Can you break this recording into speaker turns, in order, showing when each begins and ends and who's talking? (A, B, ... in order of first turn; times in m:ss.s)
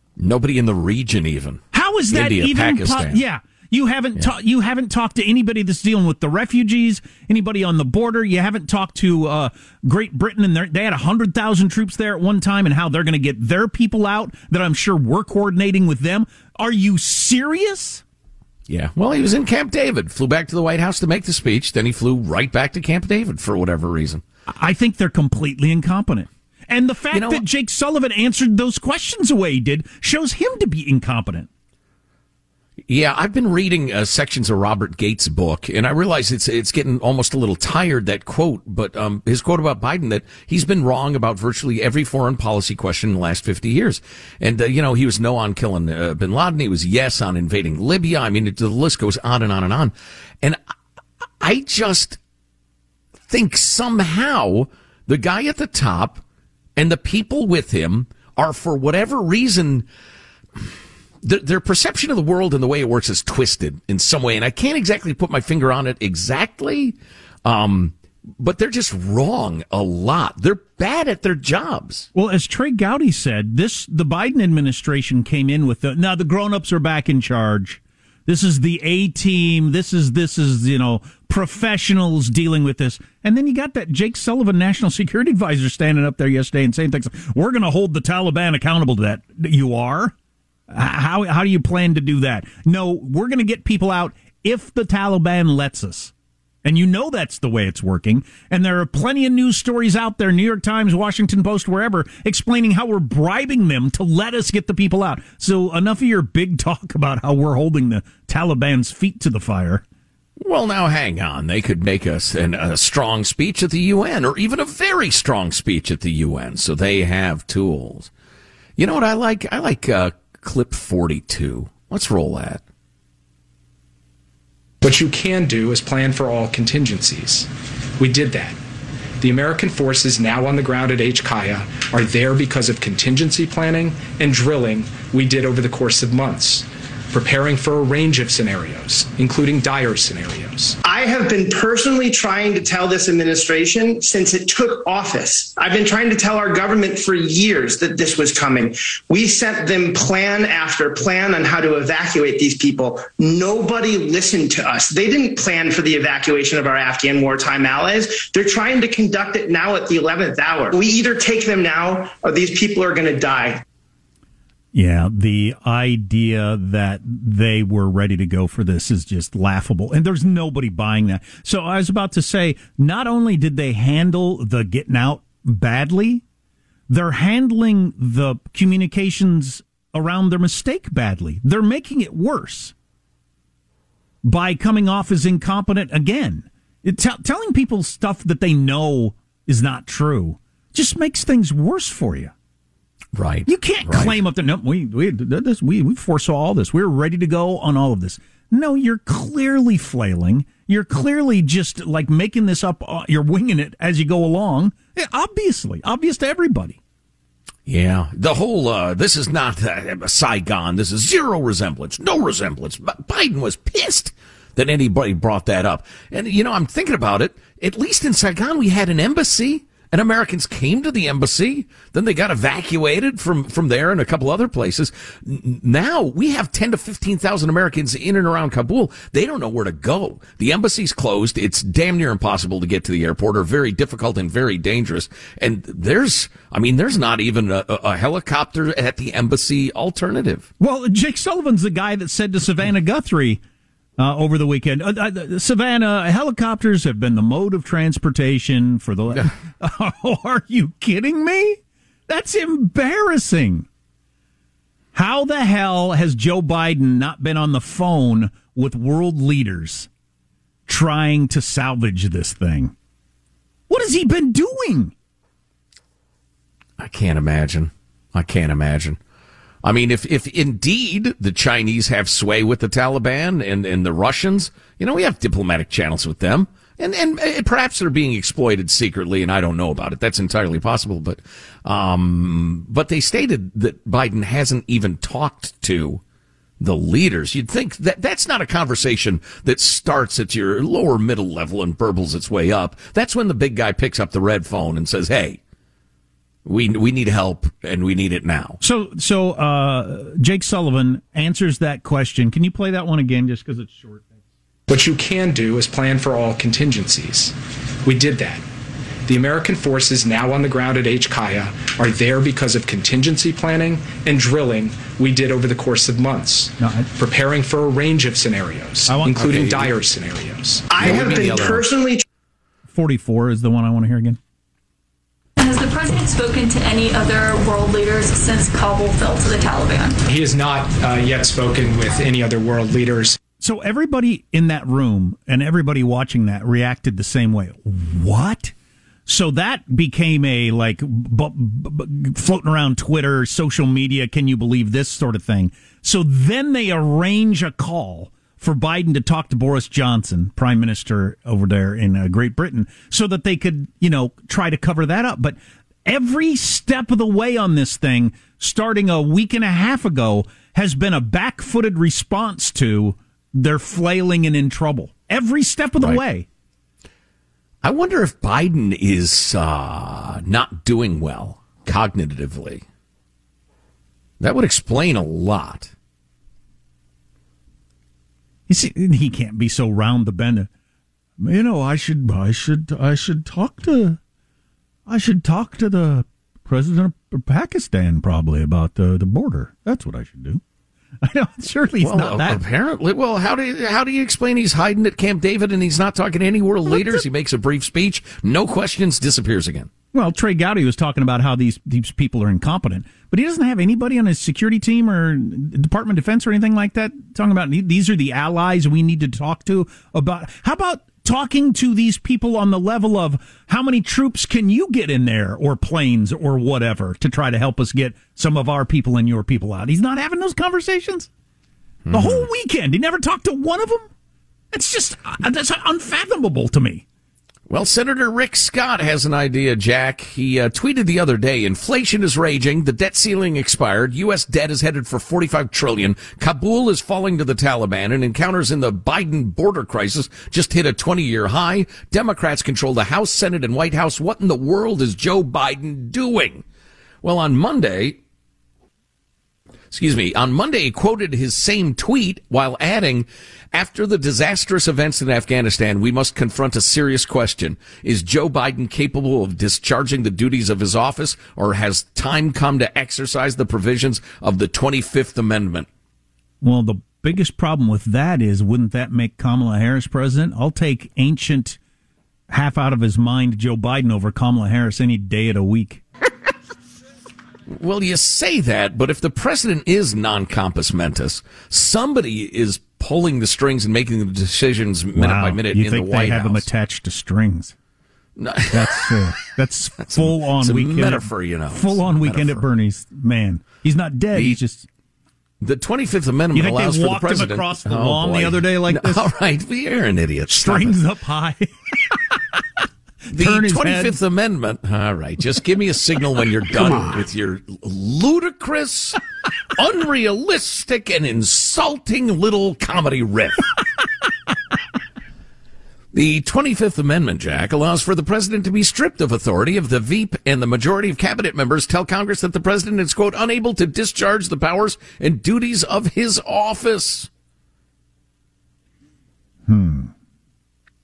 0:00.2-0:03.2 A
0:01.7-0:18.0 B
0:18.7-0:24.2 A
0:24.5-0:31.5 B
0:27.1-0:27.4 A
0:32.9-0:50.6 A
0:51.4-0:52.2 A
0:53.3-0:56.2 A
0:56.8-0:59.9 A
1:01.2-1:12.1 A
1:12.1-1:30.1 B
1:30.7-1:36.1 B
1:36.6-1:49.8 B
1:50.4-1:58.1 A
1:58.8-2:02.6 A
2:04.8-2:07.5 C
2:08.0-2:08.6 C
2:09.2-2:20.8 C
2:20.8-2:43.6 D
2:44.7-2:56.2 B
2:56.9-3:02.7 B
3:04.2-3:12.3 B
3:13.1-3:14.2 A
3:13.5-3:26.8 B
3:27.6-4:00.5 A
4:00.6-4:03.4 B
4:04.0-4:13.7 B
4:14.9-4:19.9 B
4:20.7-4:22.7 B
4:23.7-4:24.9 B
4:26.8-4:29.0 A
4:29.6-4:46.0 A
4:46.6-4:55.4 A
4:56.4-4:58.6 A
4:58.6-5:04.1 B
5:04.7-5:08.4 C
5:09.0-5:21.3 C
5:16.6-5:16.9 B
5:18.9-5:19.7 B
5:20.7-5:22.0 D
5:20.8-5:21.6 A
5:22.7-5:24.2 B
5:25.4-5:30.0 E
5:30.1-5:33.2 C
5:33.4-5:38.5 B
5:39.0-6:06.2 B
6:07.6-6:12.6 A
6:14.2-6:15.7 A
6:18.5-6:20.5 B
6:21.2-6:24.0 B
6:24.9-6:30.4 B
6:31.0-6:32.4 B
6:31.8-6:39.7 A
6:39.9-7:01.1 B
7:01.8-7:02.2 A
7:01.9-7:03.9 B
7:04.5-7:06.8 B
7:07.5-7:26.4 A
7:27.0-7:28.0 A
7:29.7-7:45.7 A
7:46.4-7:51.6 B
7:52.3-7:55.8 B
7:57.5-8:06.4 A
8:04.9-8:07.5 B
8:08.2-8:09.0 A
8:08.5-8:14.6 B
8:09.8-8:12.4 A
8:14.1-8:14.4 A
8:15.4-8:20.8 A
8:16.3-8:19.1 B
8:20.3-8:22.2 B
8:23.0-8:24.0 B
8:23.1-8:29.0 A
8:29.5-8:33.4 A
8:35.9-8:47.1 A
8:49.5-8:49.9 B